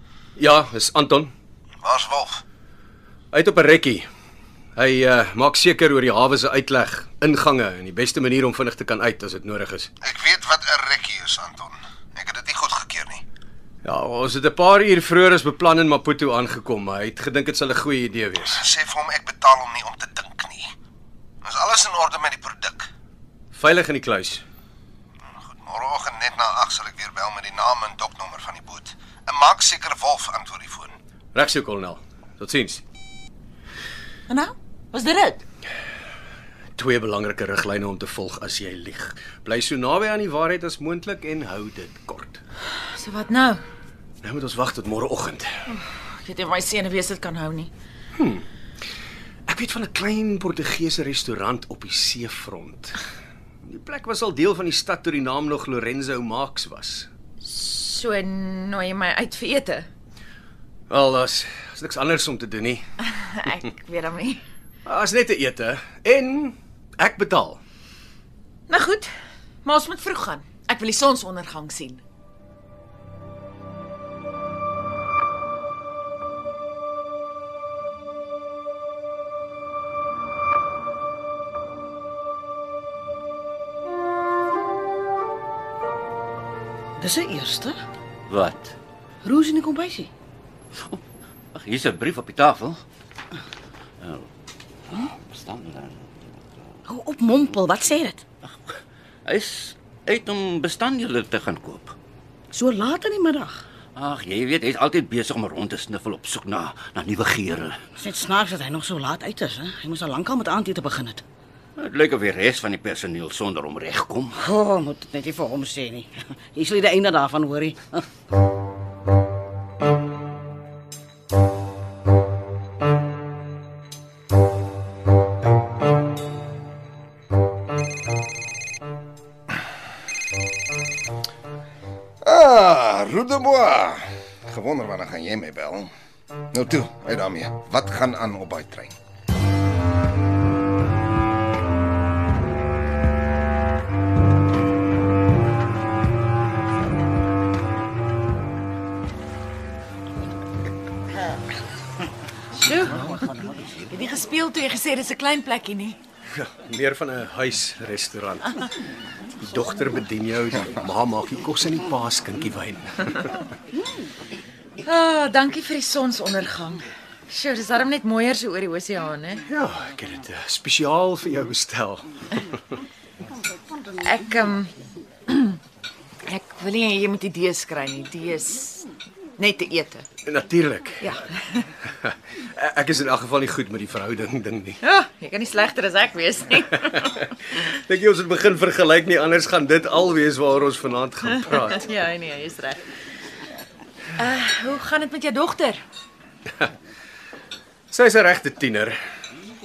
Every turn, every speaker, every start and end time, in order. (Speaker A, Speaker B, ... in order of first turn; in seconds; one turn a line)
Speaker A: 0.4-1.3
Speaker B: 1.8-2.4
Speaker A: 3.3-4.0
Speaker A: 4.8-9.9
Speaker B: 10.0-13.2
Speaker A: 13.8-18.6
Speaker B: 18.5-20.7
Speaker B: 21.4-22.9
Speaker A: 23.5-24.4
Speaker B: 25.4-30.9
Speaker A: 31.3-32.8
Speaker C: 34.3-35.4
Speaker A: 36.8-42.4
Speaker C: 42.8-43.6
Speaker A: 44.2-45.5
Speaker C: 45.7-47.7
Speaker A: 48.1-48.5
Speaker A: 49.5-53.0
Speaker A: 53.6-57.1
Speaker C: 57.4-59.9
Speaker A: 60.9-62.8
Speaker C: 63.0-64.4
Speaker A: 64.8-67.6
Speaker C: 68.7-69.1
Speaker C: 69.6-72.0
Speaker D: 87.0-87.8
Speaker E: 88.3-88.7
Speaker D: 89.2-90.1
Speaker E: 91.5-92.8
Speaker E: 94.0-94.3
Speaker E: 95.2-96.1
Speaker D: 96.9-98.2
Speaker E: 98.4-98.7
Speaker E: 99.2-101.9
Speaker D: 102.5-103.6
Speaker E: 103.9-107.8
Speaker D: 108.0-111.2
Speaker E: 111.8-114.3
Speaker D: 114.4-118.0
Speaker B: 132.2-135.9
Speaker B: 136.5-138.9
Speaker C: 152.6-153.3
Speaker D: 153.1-153.5
Speaker C: 153.9-156.0
Speaker A: 156.3-158.6
Speaker A: 159.4-163.4
Speaker C: 164.8-169.4
Speaker A: 169.5-172.6
Speaker C: 174.0-174.7
Speaker C: 175.3-175.6
Speaker C: 176.2-178.9
Speaker C: 179.4-180.1
Speaker A: 180.2-181.2
Speaker C: 181.0-181.7
Speaker A: 182.0-184.8
Speaker C: 184.8-187.2
Speaker A: 187.5-191.8
Speaker C: 191.7-192.8
Speaker C: 194.2-195.8
Speaker A: 197.9-199.0